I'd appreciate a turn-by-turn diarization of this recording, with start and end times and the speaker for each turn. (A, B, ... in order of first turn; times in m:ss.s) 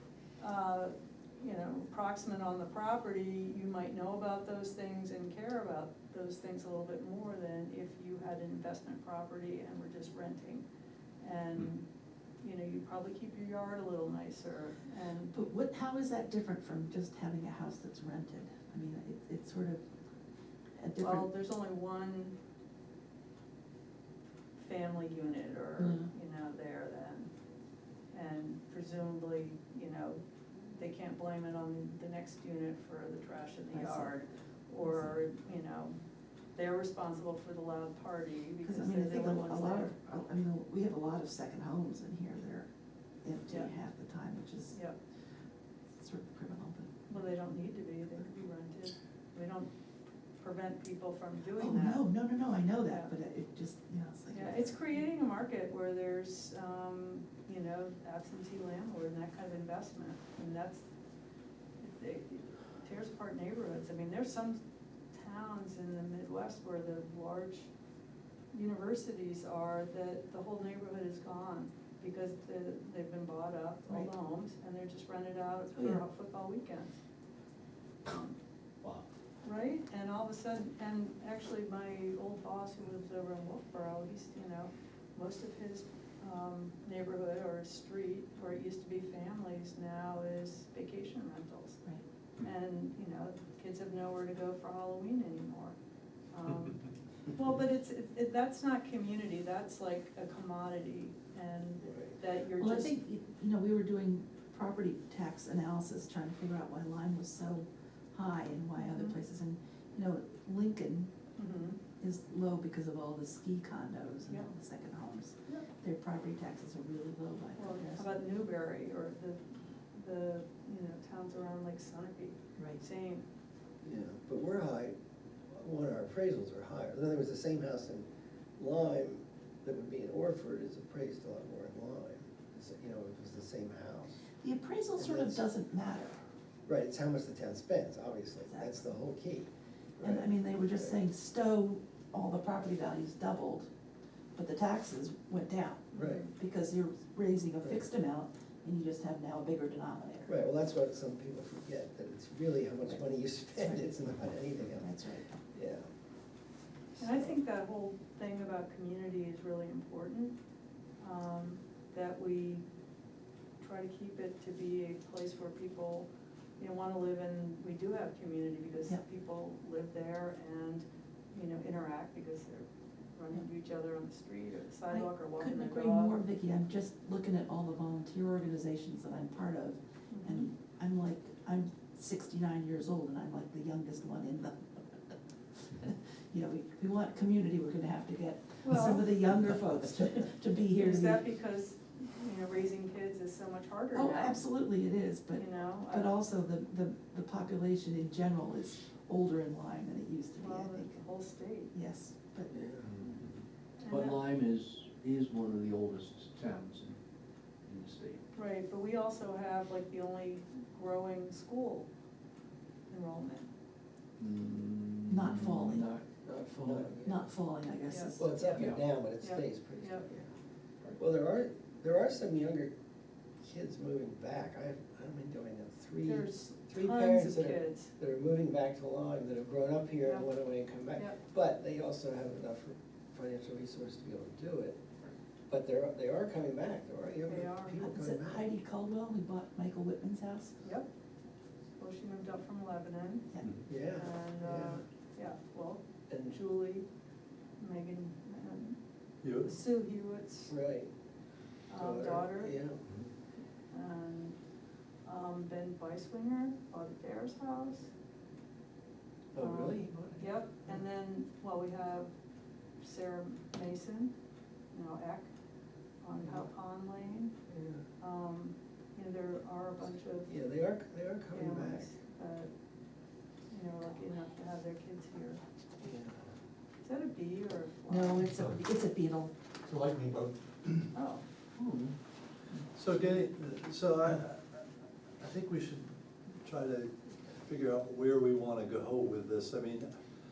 0:00.4-0:10.6 A
0:11.2-0:11.8 A
0:12.4-0:15.3 A
0:15.3-0:19.8 B
0:20.8-0:21.3 B
0:21.0-0:22.4 A
0:24.6-0:27.3 A
0:25.8-0:26.1 B
0:28.1-0:36.0 A
0:33.7-0:34.1 B
0:36.5-0:39.9 A
0:38.6-0:42.7 B
0:43.2-0:44.8 B
0:46.0-0:47.0 B
0:47.1-0:49.7 A
0:50.4-0:52.0 A
0:51.6-0:54.7 B
0:54.3-1:00.8 A
1:01.8-1:07.7 A
1:08.5-1:17.0 A
1:15.7-1:16.0 B
1:18.0-1:18.4 A
1:19.4-1:31.8 A
1:32.4-1:35.8 A
1:36.3-1:43.0 A
1:41.8-1:42.1 C
1:42.6-1:51.1 B
1:48.8-1:49.2 A
1:51.4-1:51.8 A
1:52.0-1:58.1 B
1:57.6-2:03.2 A
2:03.8-2:04.9 C
2:05.5-2:08.0 C
2:08.6-2:14.2 C
2:14.4-2:16.2 B
2:15.0-2:15.4 C
2:16.7-2:21.0 C
2:18.5-2:18.8 B
2:20.0-2:23.7 B
2:24.3-2:30.3 B
2:25.9-2:26.3 A
2:26.0-2:26.2 C
2:30.3-2:34.9 C
2:33.5-2:34.1 B
2:34.8-2:35.4 B
2:35.5-2:35.8 C
2:37.0-2:40.3 A
2:41.0-2:42.6 A
2:43.6-2:46.1 A
2:46.6-2:56.2 A
2:54.9-3:11.2 B
3:00.1-3:00.5 A
3:08.6-3:09.0 A
3:10.7-3:14.4 A
3:13.9-3:21.0 B
3:15.3-3:16.1 A
3:20.4-3:21.7 A
3:21.7-3:22.5 B
3:22.5-3:22.9 C
3:22.8-3:27.0 D
3:23.8-3:24.2 A
3:27.6-3:28.2 D
3:28.3-3:31.9 A
3:32.9-3:33.5 A
3:34.2-3:36.0 D
3:35.1-3:35.9 B
3:36.2-3:37.2 C
3:36.6-3:36.9 D
3:37.0-3:38.5 B
3:37.9-3:40.0 A
3:38.2-3:40.3 C
3:38.5-3:38.8 D
3:41.0-3:42.7 C
3:43.4-3:54.8 C
3:46.0-3:47.9 A
3:50.0-3:50.3 A
3:50.9-3:51.2 A
3:55.5-3:58.4 C
3:57.3-3:57.8 A
3:57.8-4:00.6 B
4:00.6-4:00.9 A
4:01.8-4:03.3 A
4:03.4-4:03.6 D
4:03.7-4:04.8 C
4:03.8-4:06.8 A
4:06.1-4:06.4 C
4:07.6-4:08.8 A
4:09.2-4:09.5 E
4:09.4-4:10.5 A
4:10.5-4:10.9 C
4:11.7-4:12.6 A
4:11.7-4:12.8 C
4:13.7-4:14.4 A
4:15.0-4:17.9 A
4:19.3-4:20.2 C
4:19.4-4:22.1 A
4:22.8-4:24.1 A
4:24.7-4:25.3 A
4:26.0-4:27.3 A
4:27.5-4:27.8 C
4:28.0-4:30.3 A
4:30.3-4:31.9 C
4:31.3-4:32.5 A
4:33.5-4:35.4 A
4:35.8-4:36.3 C
4:36.8-4:38.3 A
4:37.9-4:39.3 B
4:39.6-4:40.9 E
4:40.9-4:41.2 A
4:41.6-4:41.9 D
4:42.7-4:44.6 E
4:45.2-4:49.9 E